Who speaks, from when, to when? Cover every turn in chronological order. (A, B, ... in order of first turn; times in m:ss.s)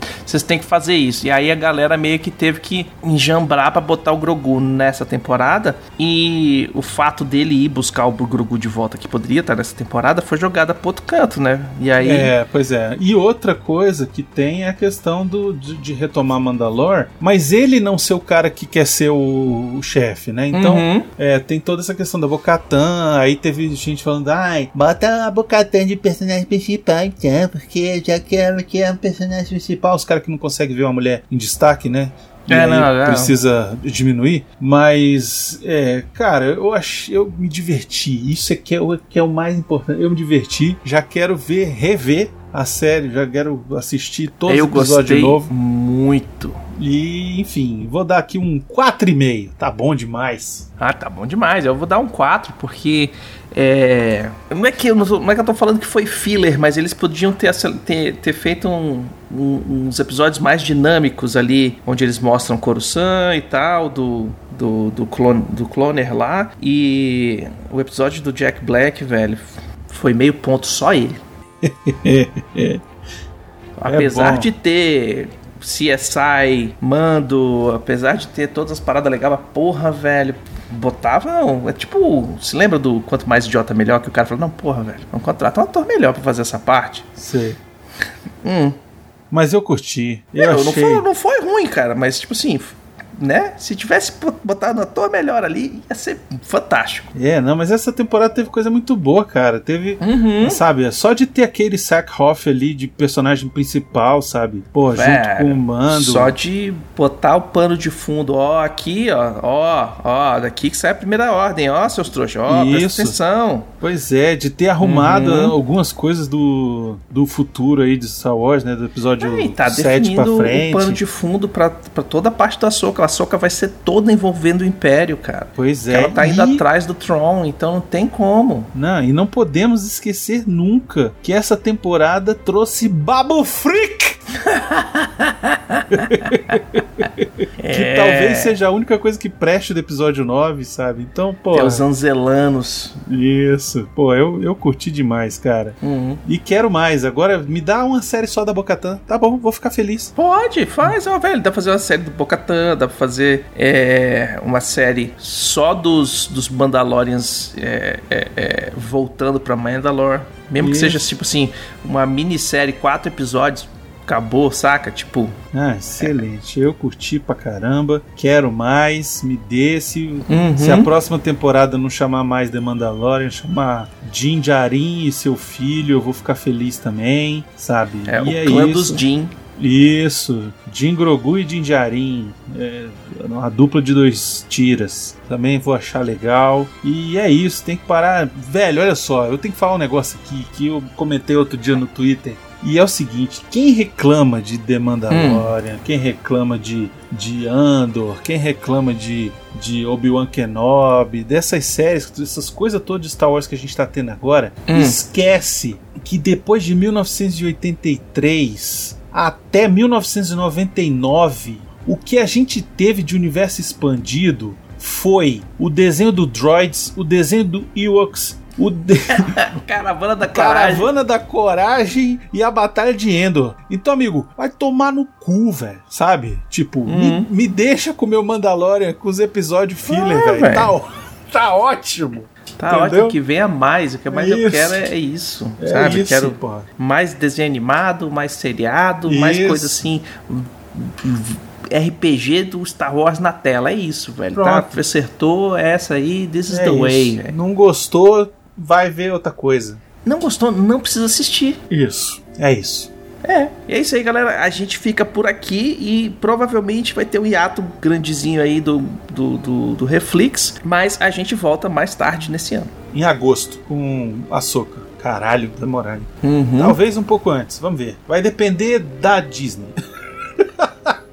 0:00.3-0:12.3 A
0:12.0-0:45.5 B
0:20.5-0:21.1 A
0:32.5-0:33.4 A
0:44.5-0:46.6 A
0:46.8-0:50.7 B
0:50.8-1:11.2 A
1:11.6-1:12.8 B
1:13.8-1:27.1 A
1:13.9-1:14.5 B
1:27.2-1:27.6 B
1:28.4-1:28.8 A
1:29.3-1:31.1 B
1:30.4-1:37.1 A
1:37.2-1:46.4 B
1:40.0-1:40.6 A
1:44.9-1:53.7 A
1:52.5-1:53.2 B
1:53.8-2:01.0 B
1:54.8-1:55.6 A
1:59.2-2:08.7 A
2:05.6-2:06.6 B
2:08.7-2:14.2 B
2:14.4-2:16.6 A
2:15.9-2:21.8 B
2:17.6-2:18.6 A
2:21.5-2:23.0 A
2:23.1-2:30.1 B
2:25.8-2:26.2 A
2:30.2-2:45.4 A
2:40.6-2:41.0 B
2:45.5-2:59.0 B
2:50.3-2:50.9 A
2:58.1-2:59.3 A
2:59.6-3:39.5 B
3:15.1-3:15.5 A
3:24.7-3:25.0 A
3:39.1-3:40.9 A
3:40.2-3:53.2 B
3:46.9-3:47.3 A
3:49.9-3:50.8 A
3:52.6-4:07.3 A
3:54.1-3:54.9 B
3:55.6-3:56.7 B
3:59.1-3:59.8 B
4:04.3-4:04.7 B
4:06.5-4:09.8 B
4:10.0-4:11.6 A
4:11.7-4:12.9 B
4:13.2-4:22.7 A
4:22.9-4:29.8 B
4:26.2-4:26.8 A
4:30.4-4:31.0 B